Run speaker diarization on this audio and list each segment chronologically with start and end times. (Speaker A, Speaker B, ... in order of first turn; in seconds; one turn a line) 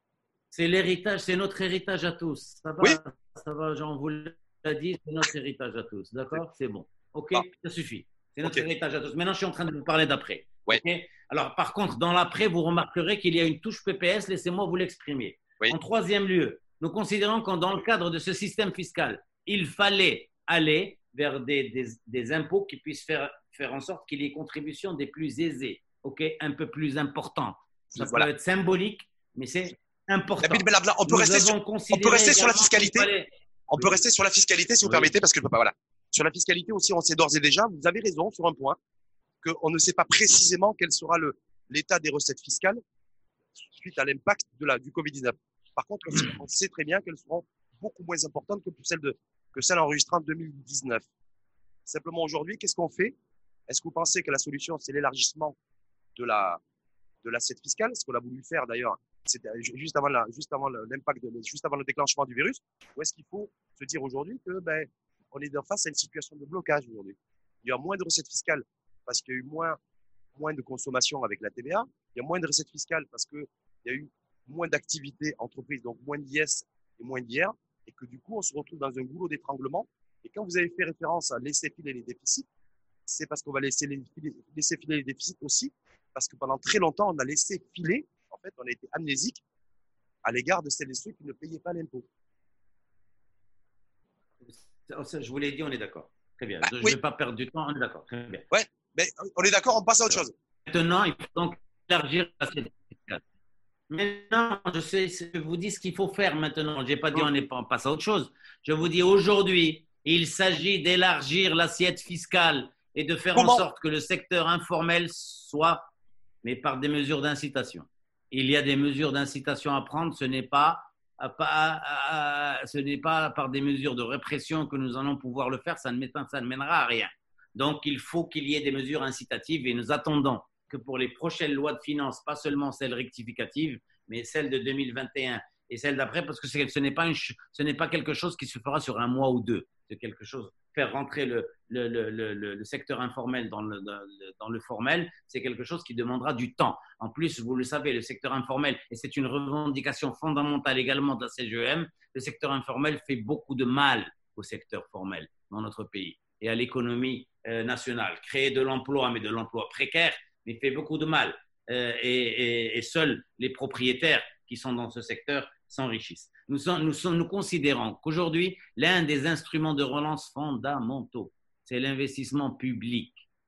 Speaker A: 0.5-33.3
Speaker B: 27.9-28.3
Speaker B: 30.4-33.1
Speaker B: 33.7-38.8
Speaker A: 34.8-35.1
Speaker B: 39.4-42.8
Speaker B: 43.6-51.1
Speaker B: 51.9-53.2
Speaker B: 53.7-55.6
Speaker B: 56.2-56.6
Speaker B: 57.2-69.8
Speaker B: 70.4-82.5
Speaker B: 83.1-89.4
Speaker B: 90.2-92.1
Speaker A: 94.4-98.5
Speaker B: 96.6-97.0
Speaker B: 98.5-100.3
Speaker A: 100.7-103.2
Speaker A: 103.9-115.9
Speaker B: 113.3-113.6
Speaker A: 116.4-173.3